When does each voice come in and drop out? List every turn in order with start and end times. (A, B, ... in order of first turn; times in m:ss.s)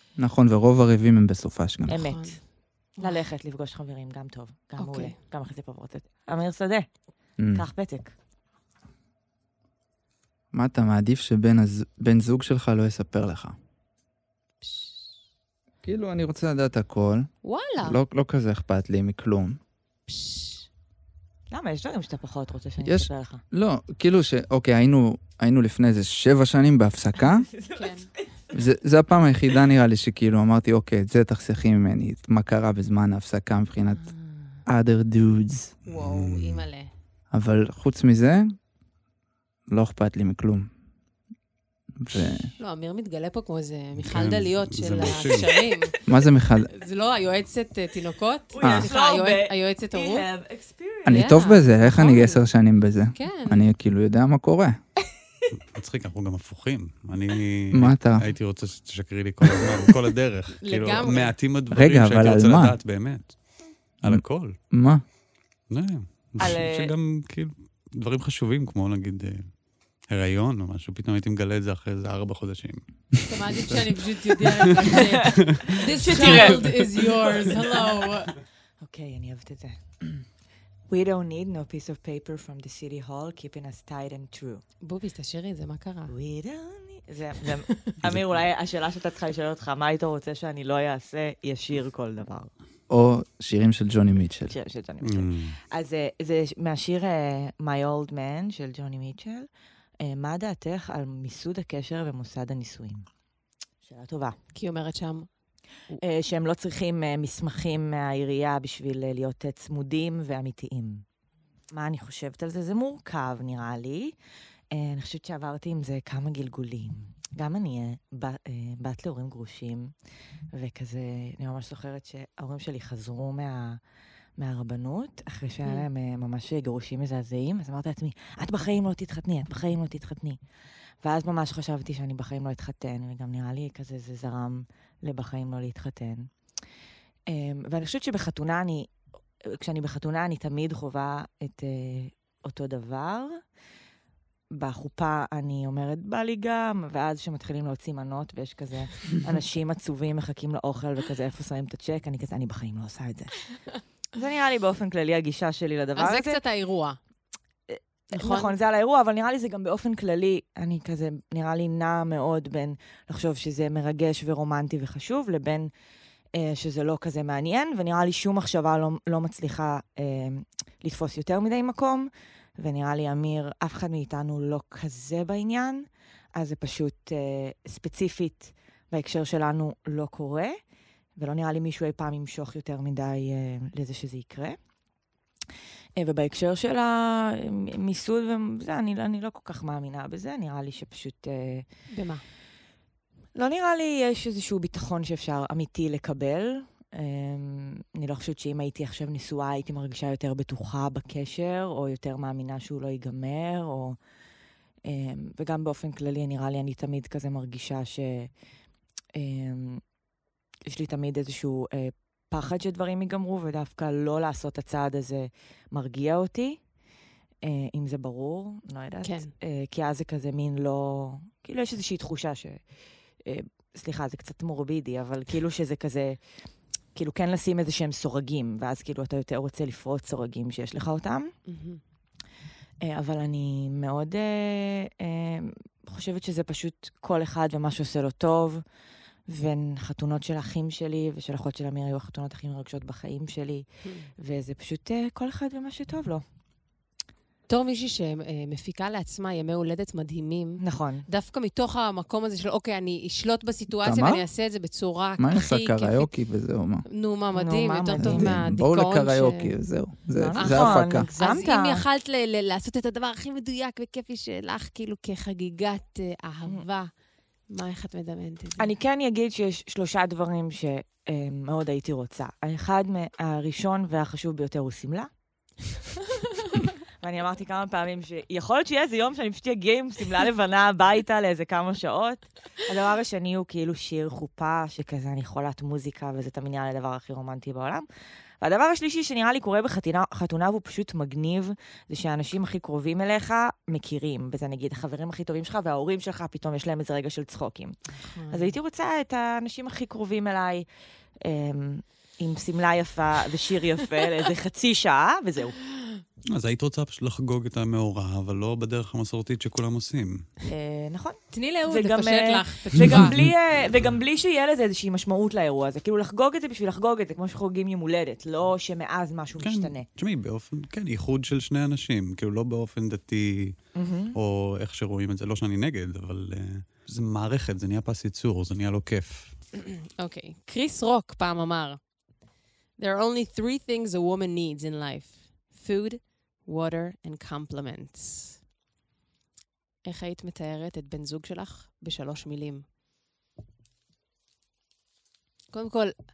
0:00.2-0:02.0 A
0:01.9-0:02.4 B
0:01.9-0:02.4 C
0:03.0-0:06.9 C
0:04.8-0:05.2 B
0:07.4-0:07.6 A
0:07.5-0:08.1 C
0:10.5-0:13.6 A
0:14.6-0:14.9 B
0:15.8-0:19.6 A
0:17.4-0:18.0 B
0:20.1-0:20.7 B
0:21.5-0:23.4 C
0:22.8-0:27.5 A
0:27.5-0:28.2 C
0:27.8-0:28.1 B
0:28.5-0:34.1 A
0:33.9-0:34.6 B
0:34.7-0:35.8 A
0:35.8-0:36.9 B
0:35.9-0:36.7 D
0:37.3-0:38.5 A
0:39.7-0:40.7 A
0:42.0-0:42.5 A
0:42.6-0:46.0 B
0:44.0-0:45.6 D
0:46.0-0:46.7 A
0:46.7-0:50.3 B
0:48.5-0:51.4 C
0:48.6-0:48.9 A
0:51.1-0:52.4 B
0:51.1-0:54.8 A
0:53.1-0:53.6 B
0:55.7-1:03.4 D
0:57.7-0:58.3 A
1:00.6-1:01.3 B
1:01.7-1:02.8 A
1:04.0-1:04.6 D
1:04.1-1:05.0 A
1:05.7-1:09.5 D
1:06.4-1:06.9 C
1:10.1-1:16.8 D
1:13.2-1:18.4 B
1:15.0-1:17.8 C
1:18.8-1:19.8 C
1:20.9-1:24.6 C
1:24.8-1:26.1 B
1:26.1-1:32.5 C
1:32.9-1:34.5 A
1:34.5-1:39.5 C
1:35.0-1:35.6 D
1:40.0-1:43.1 C
1:43.8-1:44.4 C
1:44.5-1:45.3 B
1:46.0-1:51.0 C
1:51.7-1:54.2 C
1:54.7-1:59.9 C
2:00.5-2:03.8 C
2:04.4-2:10.4 C
2:11.0-2:16.3 C
2:17.3-2:18.9 C
2:19.4-2:23.4 C
2:24.5-2:33.4 C
2:34.2-2:36.4 C
2:36.0-2:37.0 B
2:37.7-2:45.7 C
2:38.1-2:38.6 B
2:46.3-3:00.6 C
3:01.2-3:04.6 C
3:06.0-3:11.7 C
3:11.9-3:12.2 B
3:13.4-3:24.0 C
3:24.8-3:28.3 C
3:29.2-3:29.8 C
3:30.7-3:36.6 C
3:37.4-3:42.6 C
3:39.0-3:39.3 B
3:43.2-3:46.2 C
3:47.0-3:51.3 C
3:51.5-3:51.8 B
3:52.8-3:58.6 C
3:59.3-4:03.7 C
4:03.8-4:04.1 B
4:04.2-4:06.2 C
4:07.5-4:16.1 B
4:10.6-4:11.1 C
4:13.7-4:14.2 A
4:15.2-4:16.9 A
4:16.9-4:19.5 B
4:17.3-4:18.4 C
4:18.0-4:21.1 A
4:20.2-4:21.8 C
4:20.4-4:26.9 B
4:27.5-4:28.7 B
4:28.6-4:35.1 C
4:37.0-4:47.9 C
4:48.4-5:00.7 C
4:58.0-4:58.5 B
5:01.2-5:05.6 C
5:06.3-5:10.3 D
5:10.4-5:19.9 C
5:11.3-5:13.2 B
5:12.9-5:13.2 D
5:19.4-5:29.4 D
5:23.8-5:24.2 C
5:29.6-5:31.8 B
5:32.8-5:38.4 B
5:39.8-5:42.6 B
5:45.5-5:45.9 B